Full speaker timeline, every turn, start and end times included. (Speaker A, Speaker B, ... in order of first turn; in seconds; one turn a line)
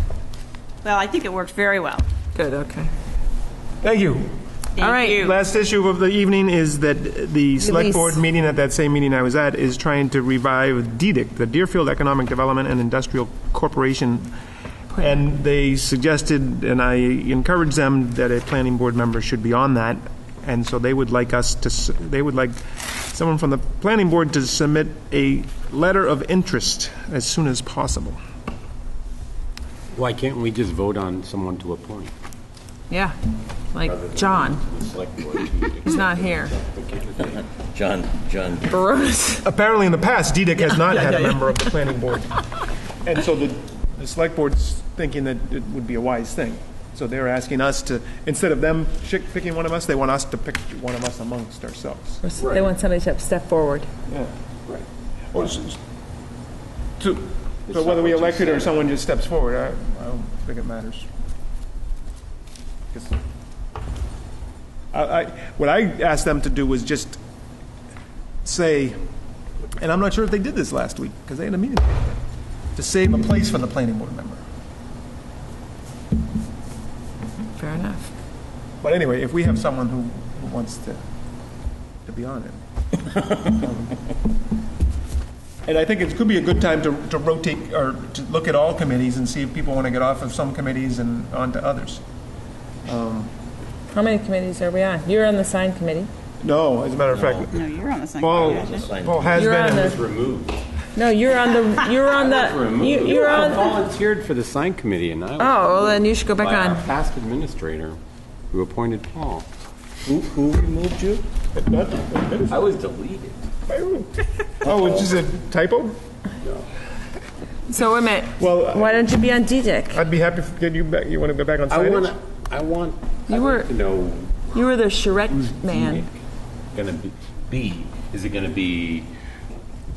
Speaker A: 0.8-2.1
Speaker B: 2.4-2.9
Speaker C: 3.8-4.3
Speaker A: 4.8-5.3
Speaker B: 4.8-5.4
Speaker C: 5.2-14.3
Speaker B: 7.6-8.2
Speaker C: 14.9-28.2
Speaker D: 29.9-32.1
Speaker B: 32.9-33.1
Speaker B: 33.7-34.6
Speaker D: 33.8-37.4
Speaker B: 35.8-36.5
Speaker E: 37.6-38.7
Speaker B: 38.6-39.5
Speaker C: 39.4-42.3
Speaker B: 40.7-41.4
Speaker C: 43.0-52.2
Speaker B: 52.2-53.9
Speaker D: 52.4-52.7
Speaker C: 55.3-55.8
Speaker C: 57.0-61.1
Speaker D: 57.7-58.8
Speaker C: 64.9-67.2
Speaker C: 68.4-69.0
Speaker C: 69.8-72.2
Speaker C: 72.8-74.4
Speaker B: 77.5-78.1
Speaker C: 78.8-81.0
Speaker C: 82.0-82.6
Speaker C: 83.4-83.9
Speaker C: 85.7-92.0
Speaker C: 92.9-93.3
Speaker B: 93.9-96.1
Speaker C: 96.4-97.5
Speaker E: 97.1-97.5
Speaker A: 97.5-98.9
Speaker C: 98.2-100.0
Speaker E: 98.2-99.4
Speaker D: 99.2-100.6
Speaker B: 99.3-100.0
Speaker B: 101.0-103.8
Speaker D: 102.1-108.0
Speaker B: 105.4-106.9
Speaker D: 108.5-109.5
Speaker E: 110.0-111.2
Speaker C: 111.6-112.5
Speaker D: 112.3-113.3
Speaker E: 112.5-113.2
Speaker C: 113.7-116.0
Speaker E: 114.6-115.1
Speaker B: 117.7-120.0
Speaker C: 118.4-119.2
Speaker C: 119.9-122.1
Speaker D: 121.7-124.6
Speaker B: 123.3-123.7
Speaker B: 124.5-126.1
Speaker D: 125.6-126.2
Speaker D: 126.7-129.1